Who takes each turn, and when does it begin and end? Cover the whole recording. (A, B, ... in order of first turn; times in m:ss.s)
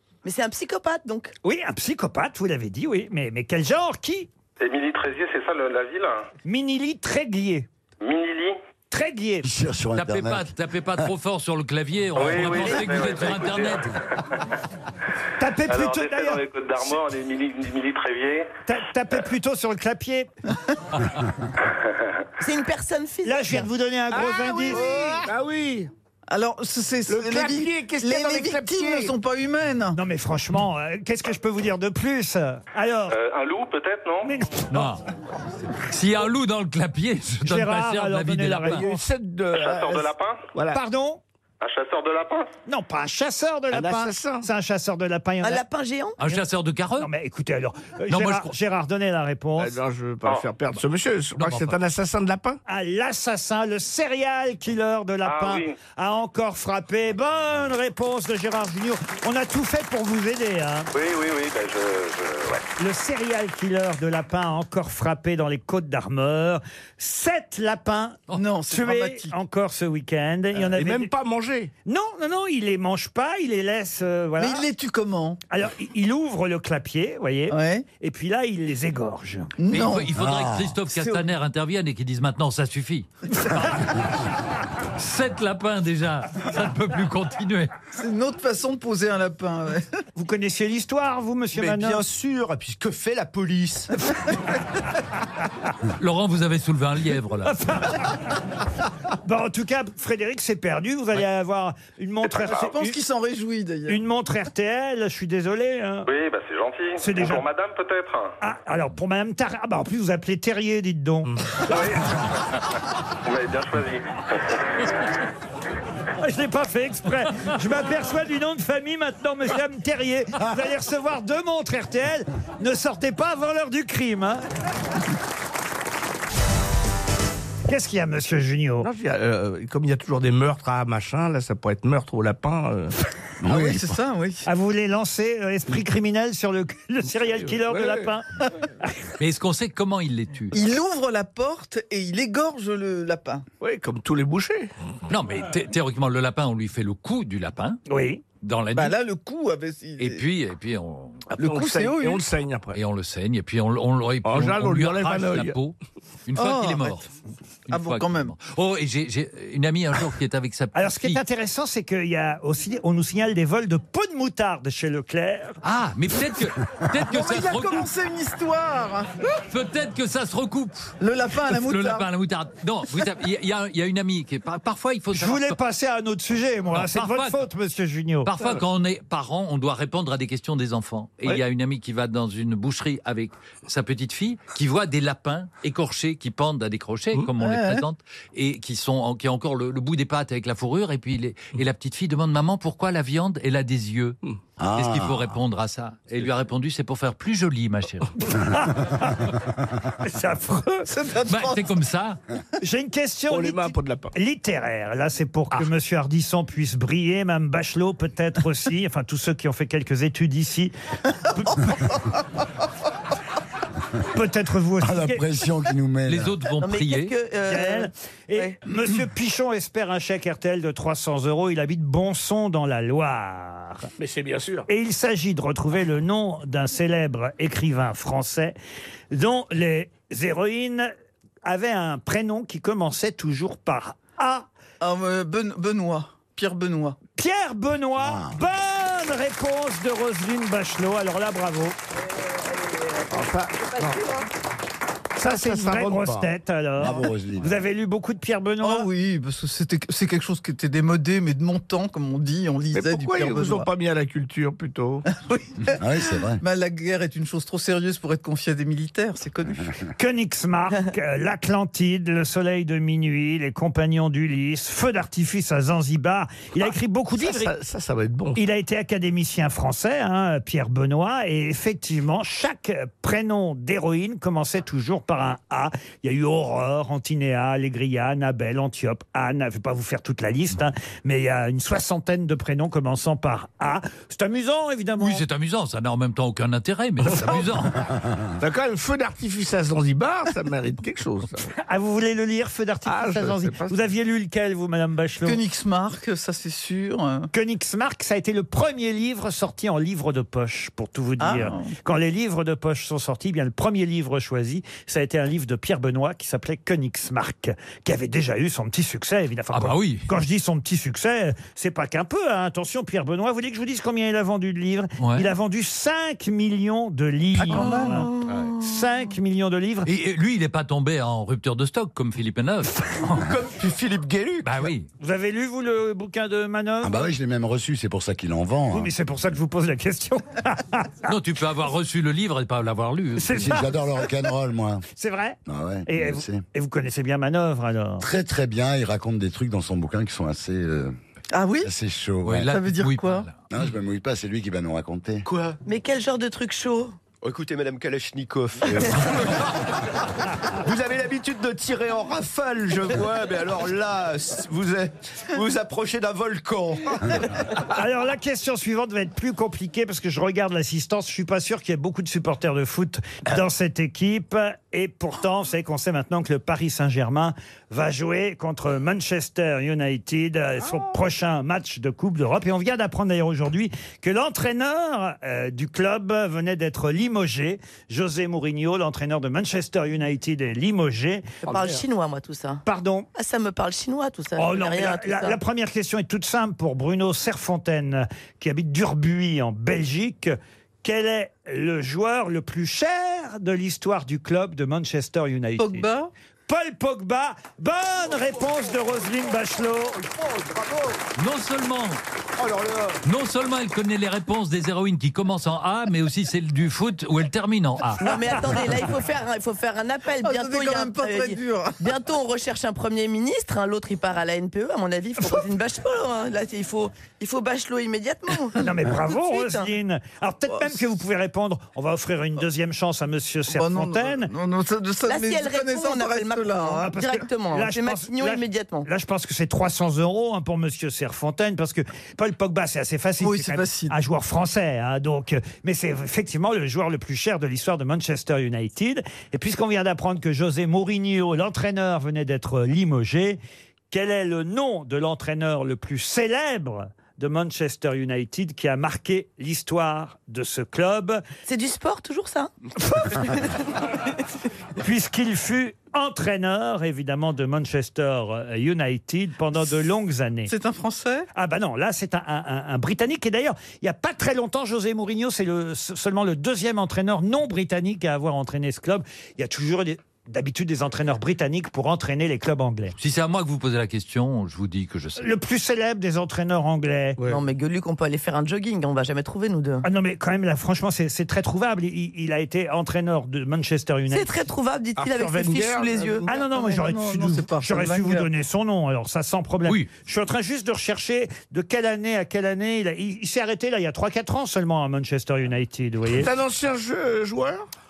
0:00.2-0:01.3 A
0:01.4-0:04.3 B
0:04.6-0:06.2 C
0:06.4-0:07.7 B
0:08.0-0:08.6 C
0:08.9-0:09.5 B
0:09.4-0:10.5 D
0:10.0-0:13.9 E
0:12.1-0:13.9 C
0:12.5-0:13.1 A
0:15.4-0:16.4 B
0:15.7-0:18.5 C
0:18.7-0:20.3 B
0:21.7-0:22.1 C
0:22.4-0:23.6 A
0:23.2-0:25.2 B
0:24.1-0:25.9 F
0:26.3-0:30.0 G
0:27.1-0:29.1 F
0:29.9-0:33.2 B
0:33.1-0:34.3 C
0:34.2-0:34.9 B
0:34.7-0:35.0 E
0:35.8-0:38.8 E
0:37.4-0:39.0 B
0:38.6-0:40.8 F
0:39.5-0:40.4 C
0:40.7-0:41.2 B
0:41.6-0:42.5 C
0:42.7-0:45.6 B
0:43.7-0:44.5 F
0:45.4-0:46.2 A
0:46.2-0:47.1 E
0:47.0-0:49.7 B
0:48.1-0:48.5 E
0:49.6-0:52.6 F
0:51.4-0:51.8 E
0:52.6-1:00.9 B
0:55.2-0:55.7 C
1:00.9-1:02.6 C
1:02.8-1:11.1 B
1:08.4-1:09.4 G
1:10.6-1:11.7 F
1:11.8-1:14.6 B
1:14.4-1:15.4 G
1:15.5-1:19.5 B
1:17.5-1:17.8 G
1:19.6-1:20.1 G
1:19.7-1:24.2 E
1:20.1-1:20.8 D
1:25.0-1:27.7 E
1:27.9-1:29.8 G
1:30.2-1:32.0 B
1:31.5-1:33.9 H
1:36.0-1:37.6 E
1:37.4-1:38.2 B
1:39.2-1:43.0 B
1:42.3-1:44.0 G
1:43.9-1:46.1 B
1:46.0-1:48.3 C
1:47.0-1:47.4 B
1:48.4-1:51.3 B
1:51.6-1:52.2 C
1:53.2-1:54.9 C
1:56.2-2:04.4 B
2:07.7-2:08.9 B
2:08.8-2:12.9 F
2:13.4-2:14.0 D
2:13.4-2:14.4 G
2:14.4-2:18.2 B
2:17.3-2:18.1 F
2:19.2-2:20.6 E
2:20.5-2:23.4 G
2:23.6-2:24.7 F
2:25.1-2:27.8 E
2:27.9-2:28.2 B
2:28.4-2:29.0 E
2:28.7-2:30.2 G
2:30.0-2:31.3 E
2:31.3-2:32.8 F
2:31.4-2:32.2 G
2:32.7-2:37.1 E
2:34.2-2:35.6 F
2:36.4-2:37.0 G
2:37.7-2:41.2 E
2:37.7-2:38.3 G
2:40.7-2:45.6 B
2:45.6-2:47.9 E
2:47.0-2:49.1 G
2:49.5-2:55.6 E
2:51.0-2:52.0 G
2:55.1-2:58.3 B
2:56.7-2:57.4 E
2:58.2-3:14.2 E
3:07.4-3:07.8 G
3:14.6-3:15.3 D
3:14.7-3:18.4 E
3:18.2-3:19.2 B
3:20.0-3:20.9 B
3:20.8-3:21.7 G
3:21.2-3:22.2 E
3:22.6-3:30.7 B
3:23.3-3:24.1 F
3:31.2-3:31.8 B
3:34.1-3:35.2 B
3:34.8-3:36.4 D
3:36.1-3:37.1 E
3:36.6-3:38.6 A
3:37.4-3:43.9 B
3:44.0-3:44.6 F
3:44.7-3:48.6 B
3:49.1-3:50.9 B
3:51.4-3:54.5 B
3:54.8-3:57.0 G
3:57.2-4:01.8 B
3:58.0-3:58.4 D
4:03.1-4:04.1 F
4:05.2-4:08.9 B
4:05.2-4:06.3 F
4:06.8-4:07.5 D
4:08.6-4:13.7 G
4:12.7-4:15.0 F
4:15.1-4:15.8 G
4:15.7-4:16.4 D
4:16.4-4:19.8 G
4:20.0-4:27.5 B
4:27.2-4:28.4 F
4:28.3-4:45.2 B
4:45.0-4:47.8 E
4:47.0-4:47.4 F
4:47.8-4:48.2 D
4:48.4-4:51.5 F
4:51.6-4:55.4 B
4:52.8-4:53.8 F
4:55.2-4:57.3 G
4:57.3-5:19.9 B
5:01.2-5:01.7 G
5:09.5-5:10.0 E
5:15.0-5:15.3 E
5:17.5-5:18.6 A
5:19.8-5:23.3 E
5:23.1-5:24.7 H
5:24.4-5:24.9 E
5:25.0-5:27.0 B
5:26.8-5:28.9 D
5:28.7-5:31.1 B
5:31.0-5:33.5 E
5:33.2-5:33.6 B
5:33.3-5:34.8 D
5:35.0-5:38.0 B
5:35.4-5:36.4 D
5:38.0-5:40.9 D
5:41.3-5:41.7 G
5:41.6-5:42.5 D
5:42.2-5:43.4 E
5:42.5-5:43.3 G
5:43.5-5:45.2 D
5:45.2-5:45.6 H
5:45.6-5:47.0 A
5:47.2-5:49.5 H
5:50.6-5:57.2 H
5:57.6-6:21.3 B
6:21.4-6:22.6 A
6:21.5-6:21.8 F
6:22.6-6:23.1 B
6:23.1-6:25.4 A
6:24.4-6:35.9 B
6:35.6-6:36.1 G
6:36.5-6:40.0 B
6:40.1-6:40.6 F
6:40.2-6:40.9 H
6:41.2-6:42.0 E
6:42.4-6:42.9 H
6:42.4-6:42.7 F
6:43.0-6:48.0 E
6:48.0-6:59.7 A
6:50.2-6:51.9 G
6:58.6-7:04.3 B
7:00.5-7:00.8 G
7:03.5-7:06.9 G
7:05.0-7:08.9 A
7:06.8-7:23.4 B
7:13.2-7:13.9 G
7:23.9-7:31.2 B
7:31.4-7:32.5 A
7:33.0-7:33.6 A
7:34.8-7:40.5 B
7:40.5-7:41.3 G
7:41.3-7:52.9 B
7:53.0-7:55.3 E
7:55.2-7:57.2 B
7:57.2-7:59.8 A
7:59.8-8:04.4 B
8:04.1-8:06.2 A
8:05.0-8:06.3 F
8:06.2-8:16.3 B
8:06.3-8:08.3 G
8:16.1-8:17.6 F